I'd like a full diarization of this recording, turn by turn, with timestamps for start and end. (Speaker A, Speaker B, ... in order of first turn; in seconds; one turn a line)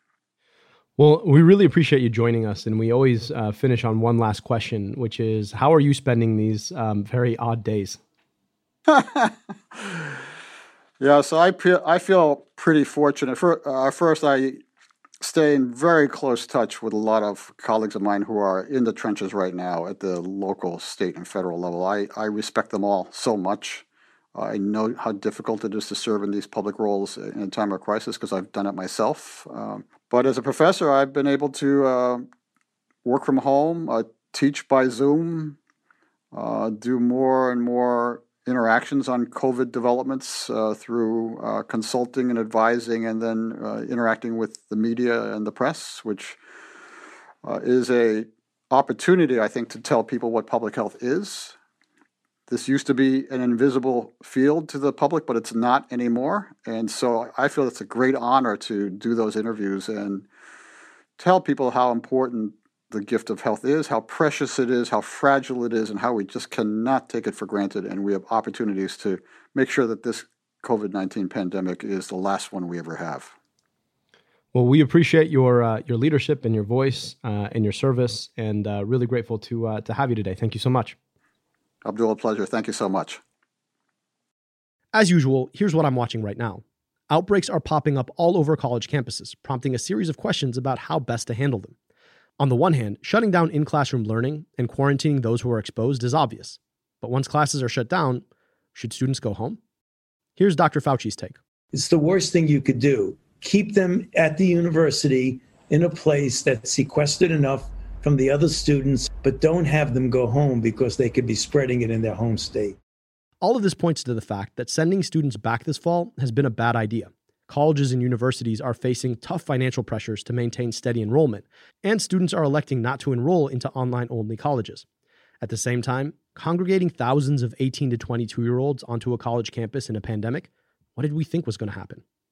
Speaker A: 1.0-8.0
Speaker B: 8.9-10.0
Speaker B: 11.0-14.6
Speaker B: 15.2-32.2
Speaker B: 33.0-35.6
Speaker B: 36.3-46.4
Speaker B: 47.5-51.6
Speaker B: 52.5-60.3
Speaker B: 61.2-73.3
Speaker A: 74.5-81.0
Speaker B: 81.8-83.2
Speaker A: 84.9-91.8
Speaker A: 92.4-98.2
Speaker A: 98.8-99.6
Speaker A: 100.4-101.4
Speaker C: 101.7-112.8
Speaker A: 113.4-124.8
Speaker A: 125.4-132.0